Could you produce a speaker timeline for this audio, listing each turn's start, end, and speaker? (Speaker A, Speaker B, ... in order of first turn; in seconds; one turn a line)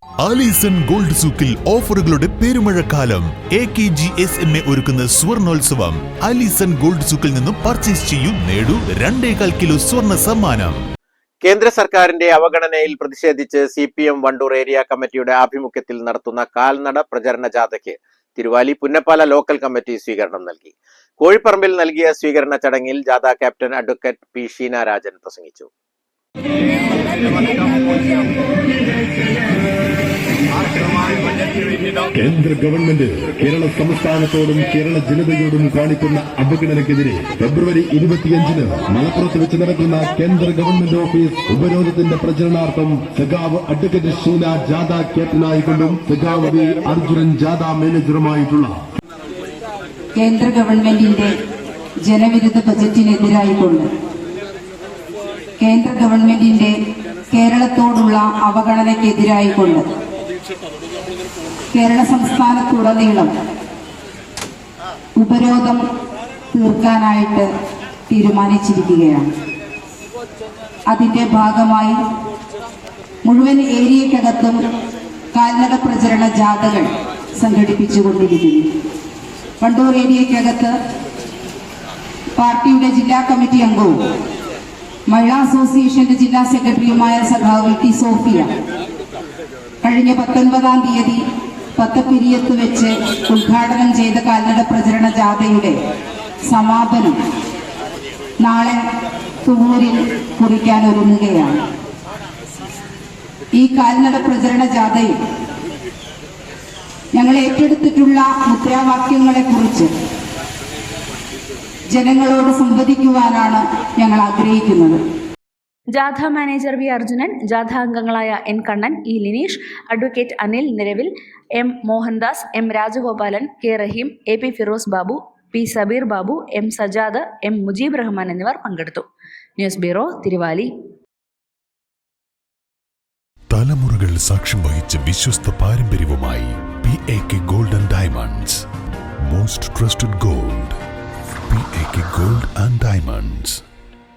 Speaker A: 0.2-10.8
Speaker B: 11.4-25.7
Speaker B: 27.2-28.1
Speaker B: 31.0-31.5
Speaker C: 32.1-48.7
Speaker D: 50.2-51.3
Speaker D: 52.1-53.9
Speaker D: 55.6-56.7
Speaker D: 57.3-59.8
Speaker D: 61.7-63.3
Speaker D: 65.2-65.8
Speaker D: 66.5-67.5
Speaker D: 68.1-69.3
Speaker D: 70.9-72.0
Speaker D: 73.3-74.6
Speaker D: 75.3-78.7
Speaker D: 79.6-80.7
Speaker D: 82.4-84.0
Speaker D: 85.1-88.5
Speaker D: 89.8-91.2
Speaker D: 91.8-95.8
Speaker D: 96.5-97.2
Speaker D: 98.4-98.8
Speaker D: 99.5-101.6
Speaker D: 103.6-105.2
Speaker D: 107.2-109.9
Speaker D: 111.9-115.0
Speaker E: 116.0-129.1
Speaker E: 129.6-130.7
Speaker A: 133.5-138.6
Speaker A: 139.2-140.8
Speaker A: 141.5-143.6